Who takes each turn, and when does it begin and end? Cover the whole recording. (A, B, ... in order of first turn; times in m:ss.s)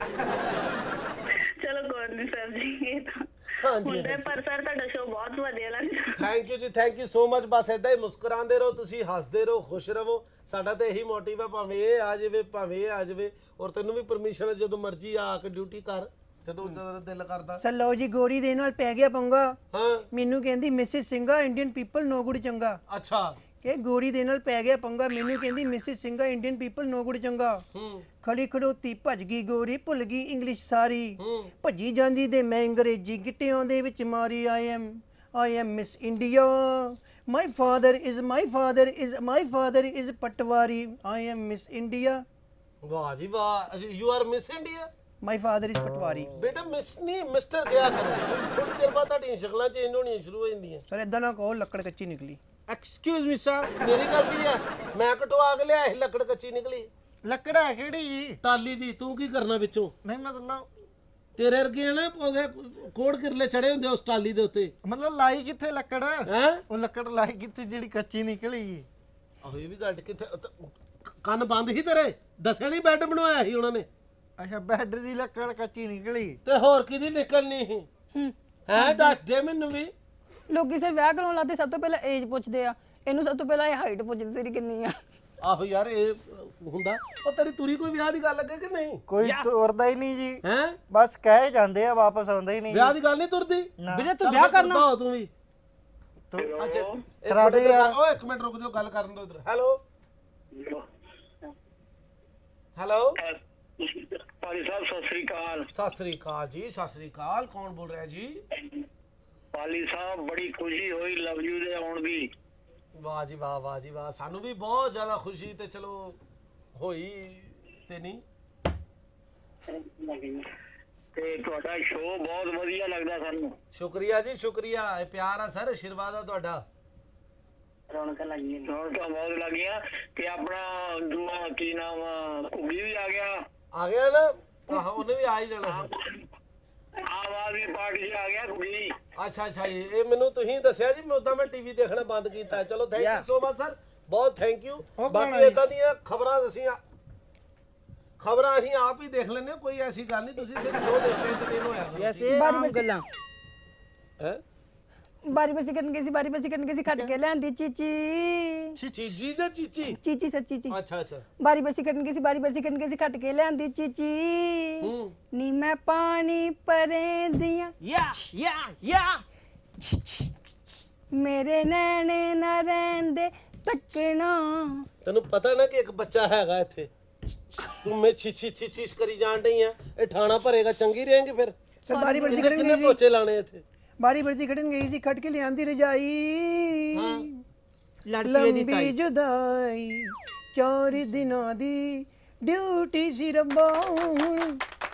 0:01.6-0:03.2 A
0:03.6-0:04.3 B
0:03.8-0:06.2 A
0:06.2-0:17.6 B
0:17.6-0:19.6 C
0:19.7-0:20.1 B
0:20.1-0:22.8 C
0:22.9-0:23.4 B
0:23.6-0:27.6 C
0:27.7-0:28.1 B
0:28.2-0:42.2 C
0:31.2-0:31.5 B
0:42.8-0:44.9 B
0:45.2-0:46.3 C
0:46.4-0:50.8 B
0:50.9-0:52.4 C
0:52.7-0:53.7 D
0:53.8-0:56.9 B
0:57.2-0:58.4 E
0:58.4-0:59.9 B
1:00.0-1:00.7 E
1:01.4-1:04.7 B
1:04.8-1:08.9 E
1:06.3-1:06.6 B
1:09.4-1:10.7 B
1:11.2-1:13.9 B
1:14.4-1:16.4 E
1:16.4-1:17.9 B
1:18.1-1:19.2 F
1:18.7-1:19.9 B
1:20.5-1:25.0 F
1:25.4-1:29.0 B
1:29.1-1:33.0 E
1:29.2-1:29.5 D
1:30.4-1:30.8 B
1:32.7-1:35.3 B
1:33.8-1:34.1 E
1:33.9-1:34.9 D
1:36.3-1:37.0 G
1:36.6-1:39.8 B
1:37.2-1:38.0 E
1:40.5-1:40.8 G
1:42.8-1:43.2 B
1:43.2-1:45.7 G
1:45.7-1:48.4 B
1:49.5-1:52.3 G
1:53.0-1:56.2 B
1:56.8-1:58.2 B
2:01.1-2:03.6 G
2:03.7-2:06.6 B
2:08.5-2:13.4 G
2:13.7-2:15.9 B
2:15.6-2:16.1 G
2:17.1-2:18.9 G
2:19.2-2:26.8 B
2:23.0-2:23.2 D
2:25.0-2:25.6 D
2:28.2-2:32.4 B
2:31.9-2:33.0 D
2:32.3-2:32.9 F
2:35.2-2:38.8 F
2:38.8-2:39.0 E
2:38.9-2:40.0 B
2:39.9-2:40.8 F
2:40.7-2:41.2 B
2:41.4-2:47.7 F
2:44.8-2:45.1 B
2:47.8-2:49.2 D
2:49.8-2:50.3 F
2:51.1-2:54.9 F
2:55.0-2:56.9 B
2:57.8-3:01.6 B
3:01.8-3:03.0 C
3:01.9-3:02.7 F
3:02.3-3:03.6 B
3:04.0-3:07.4 C
3:06.9-3:07.3 B
3:08.1-3:09.0 D
3:08.2-3:14.6 C